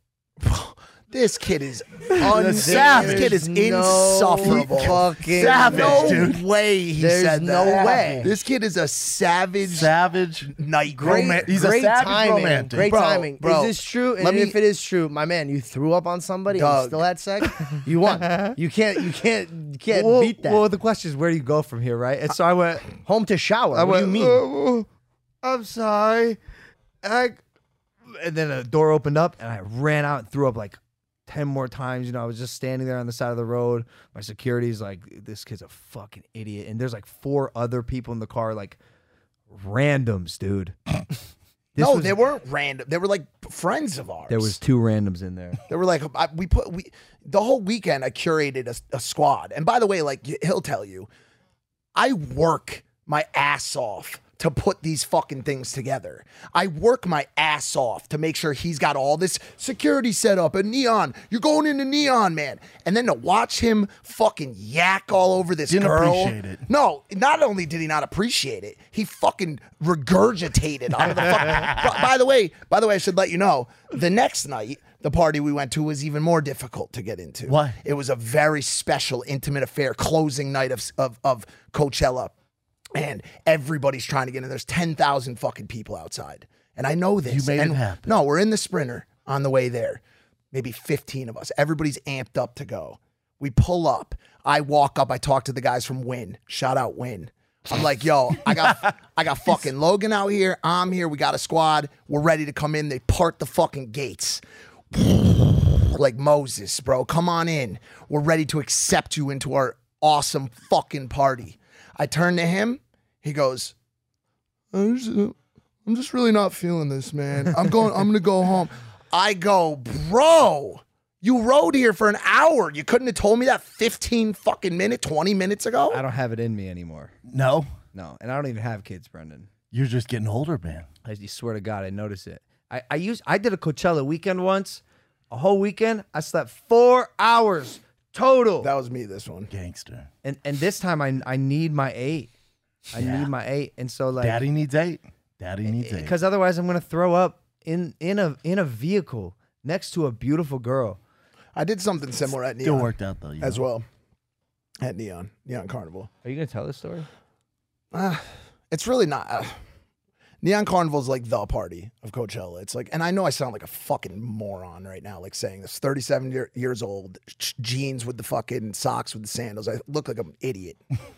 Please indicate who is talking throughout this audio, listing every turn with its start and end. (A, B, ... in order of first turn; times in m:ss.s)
0:00.4-0:09.9 A
0:02.3-0:03.4 B
0:02.5-0:06.3 C
0:05.3-0:06.4 B
0:07.0-0:08.3 C
0:09.7-0:12.9 B
0:10.5-0:11.6 A
0:11.0-0:20.7 C
0:12.8-0:14.6 A
0:16.5-0:17.1 A
0:18.1-0:18.6 D
0:19.9-0:23.0 D
0:23.0-0:24.5 C
0:23.7-0:24.8 D
0:25.4-0:26.4 D
0:27.0-0:27.4 D
0:28.1-0:38.8 D
0:39.5-0:40.8 D
0:41.7-0:42.2 D
0:41.8-0:44.6 A
0:44.3-0:45.6 D
0:45.7-0:51.1 A
0:51.9-1:22.3 A
1:05.7-1:06.6 B
1:11.5-1:12.0 B
1:17.5-1:17.8 B
1:22.9-1:30.0 A
1:27.2-1:28.1 B
1:30.5-1:44.4 A
1:44.9-1:53.7 A
1:54.7-2:06.0 A
2:05.9-2:07.1 D
2:07.2-2:07.7 B
2:07.9-2:09.5 D
2:09.7-2:10.9 B
2:11.0-2:18.7 D
2:18.6-2:19.5 A
2:19.5-2:20.1 B
2:20.2-2:22.3 D
2:22.9-2:24.4 D
2:22.9-2:23.3 B
2:24.2-2:26.2 B
2:25.7-2:31.0 D
2:31.5-2:33.8 A
2:32.6-2:33.6 B
2:34.8-2:36.1 A
2:36.2-2:37.1 D
2:37.9-2:39.6 A
2:40.4-2:50.8 A